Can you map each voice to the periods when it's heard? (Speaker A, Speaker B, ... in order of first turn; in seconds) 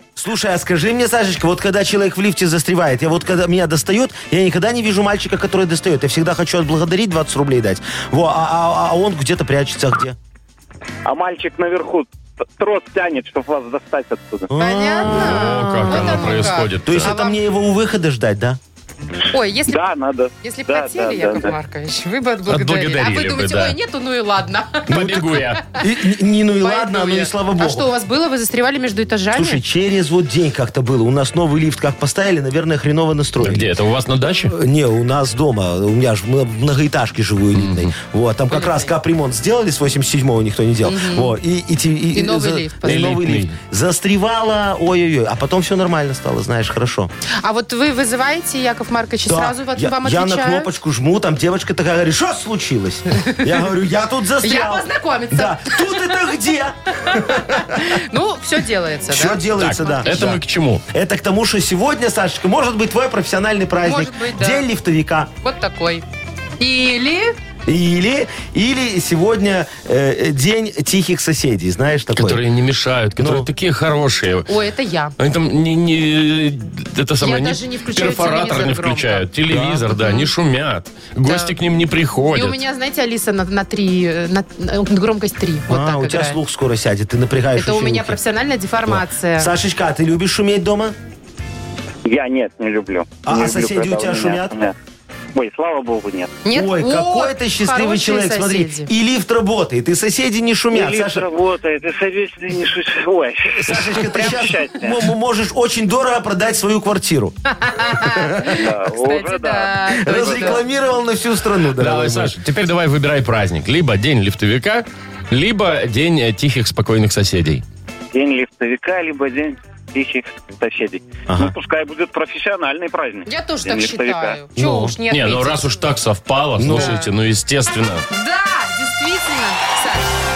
Speaker A: 0.2-10.2, 14.5-18.6, 24.9-27.9, 29.3-33.7, 34.5-47.1, 49.3-58.0, 59.1-65.3, 67.7-72.4, 73.2-73.5, 79.5-79.9, 85.7-88.2, 88.8-91.0, 93.2-94.6, 96.5-101.3, 103.5-108.5, 110.0-112.4, 121.3-121.5, 124.5-125.0, 126.6-127.0
Speaker B: 11.0-14.5, 19.6-21.5, 92.0-94.7, 95.3-96.4, 100.7-105.0, 108.5-110.6, 118.1-124.4
Speaker C: 14.6-17.4, 19.3-19.8, 20.4-25.4, 26.6-29.6, 38.5-38.9, 40.8-41.3, 42.1-43.1, 47.4-50.7, 53.1-53.5, 54.4-56.2, 57.0-60.1, 63.8-64.7, 65.4-66.0, 66.6-67.3, 74.5-75.1, 77.2-79.3, 79.9-80.3, 81.2-81.5, 82.3-86.4, 87.5-89.5, 96.4-98.9, 107.6-110.6, 123.2-125.8, 126.7-127.1, 128.1-130.1
Speaker D: 15.0-17.1, 22.5-23.8, 24.9-25.6, 33.4-34.5, 37.5-37.9, 42.8-43.6, 59.6-60.8, 72.1-74.5, 75.2-82.6, 111.8-117.6, 125.1-128.1